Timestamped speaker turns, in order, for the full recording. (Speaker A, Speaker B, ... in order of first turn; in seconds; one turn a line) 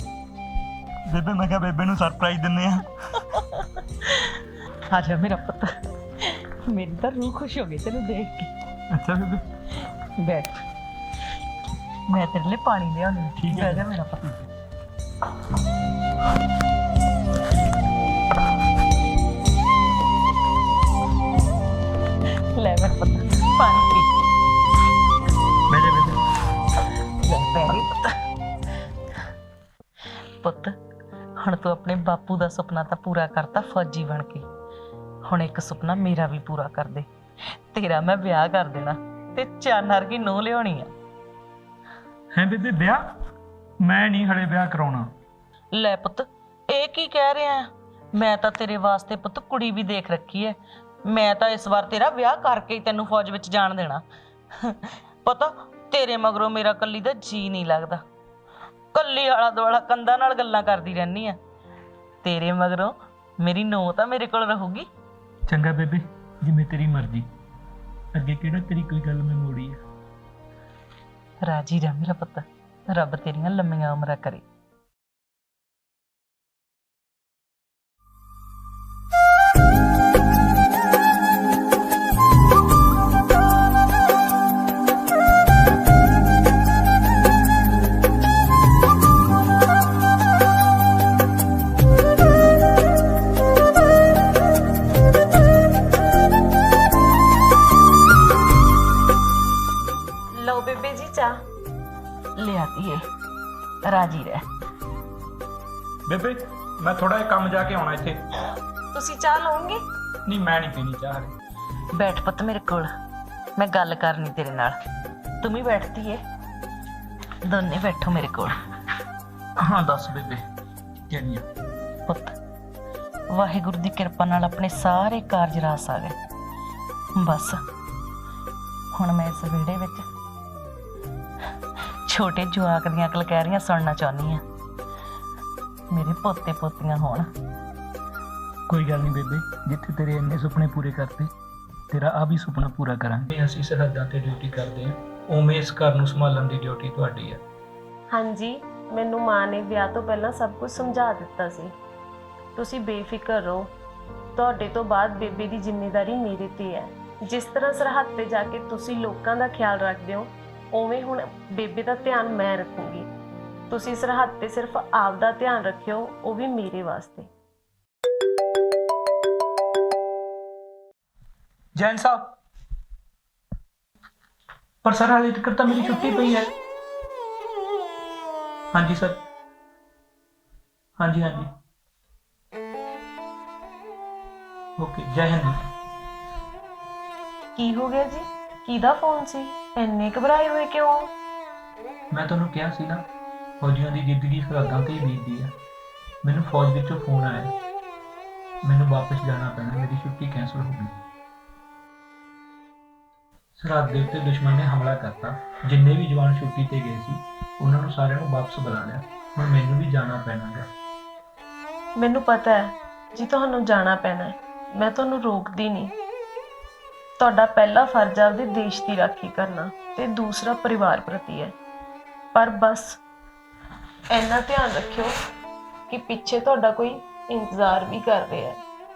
Speaker A: 1.1-2.9
Speaker B: 4.9-8.5
Speaker A: 8.9-9.4
Speaker B: 10.2-10.6
Speaker B: 12.1-14.3
Speaker A: 13.4-13.8
Speaker B: 22.5-24.1
Speaker A: 25.7-26.2
Speaker B: 27.2-28.1
Speaker B: 30.4-30.8
Speaker B: 31.4-34.5
Speaker B: 35.2-40.9
Speaker A: 42.3-43.0
Speaker A: 43.8-45.1
Speaker B: 45.7-54.0
Speaker B: 54.6-58.0
Speaker B: 58.9-61.4
Speaker B: 62.2-64.9
Speaker A: 65.5-67.3
Speaker A: 68.1-69.8
Speaker B: 71.4-74.5
Speaker C: 100.3-101.4
Speaker B: 102.4-103.0
Speaker B: 103.8-104.5
Speaker A: 106.1-108.2
Speaker C: 108.9-109.8
Speaker A: 110.3-111.3
Speaker B: 111.9-112.9
Speaker B: 113.6-114.8
Speaker B: 115.4-116.2
Speaker B: 117.4-118.6
Speaker A: 119.6-120.4
Speaker A: 121.1-121.5
Speaker B: 122.1-122.3
Speaker B: 123.3-126.2
Speaker B: 127.2-127.6
Speaker B: 128.9-130.1
Speaker B: 132.1-134.4
Speaker B: 135.9-137.3
Speaker A: 138.7-141.3
Speaker A: 141.9-147.4
Speaker C: 148.1-151.7
Speaker C: 152.6-153.7
Speaker C: 154.4-163.1
Speaker C: 163.7-167.3
Speaker A: 171.8-172.4
Speaker A: 174.8-176.5
Speaker A: 178.7-179.2
Speaker A: 181.0-181.5
Speaker A: 184.8-185.6
Speaker C: 187.6-191.1
Speaker A: 192.1-193.1
Speaker A: 193.6-195.5
Speaker A: 196.2-197.6
Speaker A: 198.6-201.0
Speaker A: 203.6-210.7
Speaker C: 212.0-215.9
Speaker C: 217.2-221.5
Speaker C: 222.3-223.0
Speaker C: 224.1-225.1
Speaker C: 225.9-228.6